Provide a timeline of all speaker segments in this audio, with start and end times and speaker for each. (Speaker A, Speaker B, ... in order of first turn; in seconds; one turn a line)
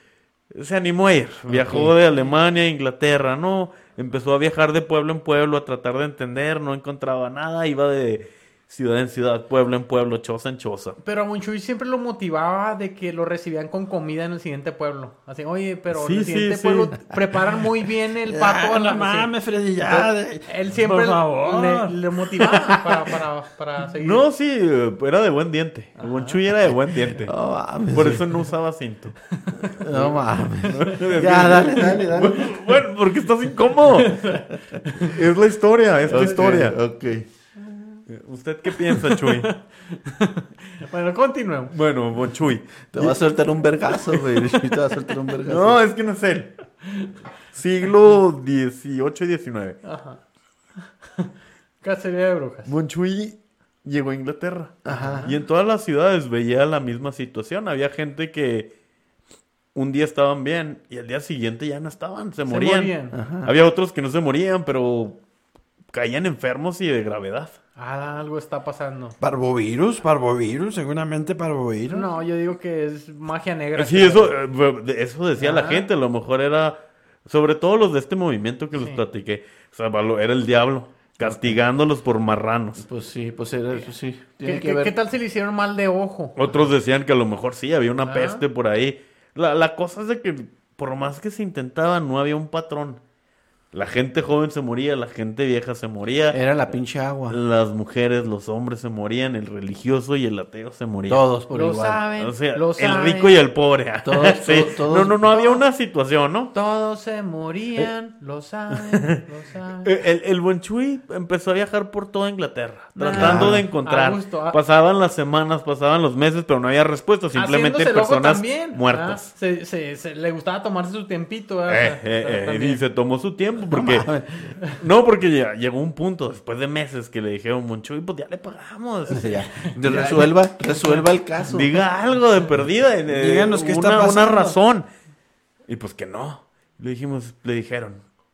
Speaker A: 0.5-11.0
Speaker B: 1.5-1.9
Speaker C: 11.0-19.3
Speaker A: 15.9-17.1
Speaker D: 18.3-22.8
Speaker C: 19.9-24.3
Speaker A: 24.0-27.4
Speaker B: 27.1-28.3
Speaker A: 27.9-29.1
Speaker B: 29.8-32.8
Speaker A: 29.9-34.3
Speaker C: 34.0-35.2
Speaker A: 35.0-36.8
Speaker B: 36.1-37.2
Speaker A: 38.1-39.5
Speaker C: 38.9-41.8
Speaker A: 41.7-43.2
Speaker B: 42.9-45.8
Speaker A: 44.1-44.4
Speaker A: 45.5-46.5
Speaker C: 46.8-47.1
Speaker A: 47.5-49.8
Speaker C: 49.8-50.2
Speaker C: 51.0-51.3
Speaker C: 51.8-52.7
Speaker A: 52.7-58.7
Speaker B: 54.9-55.3
Speaker C: 54.9-55.3
Speaker A: 59.8-65.2
Speaker C: 62.5-63.2
Speaker B: 63.1-63.5
Speaker A: 65.9-67.6
Speaker C: 67.8-69.2
Speaker D: 69.2-72.1
Speaker C: 71.9-74.3
Speaker A: 73.8-82.8
Speaker C: 75.4-75.9
Speaker C: 78.7-79.0
Speaker B: 81.2-81.6
Speaker B: 82.8-84.9
Speaker C: 84.4-86.5
Speaker A: 86.4-93.0
Speaker C: 88.0-88.4
Speaker A: 93.7-96.5
Speaker B: 96.3-97.4
Speaker A: 97.3-101.2
Speaker B: 101.1-102.0
Speaker C: 101.5-103.4
Speaker A: 102.2-106.5
Speaker B: 104.0-105.2
Speaker C: 105.3-105.6
Speaker C: 106.5-109.9
Speaker A: 108.9-109.2
Speaker A: 109.8-119.3
Speaker C: 113.0-114.6
Speaker B: 113.2-113.7
Speaker C: 117.3-122.8
Speaker A: 121.7-124.1
Speaker B: 123.7-124.5
Speaker A: 124.8-129.5
Speaker B: 129.1-131.8
Speaker C: 129.5-131.0
Speaker A: 131.5-134.9
Speaker D: 133.1-134.6
Speaker A: 135.7-138.0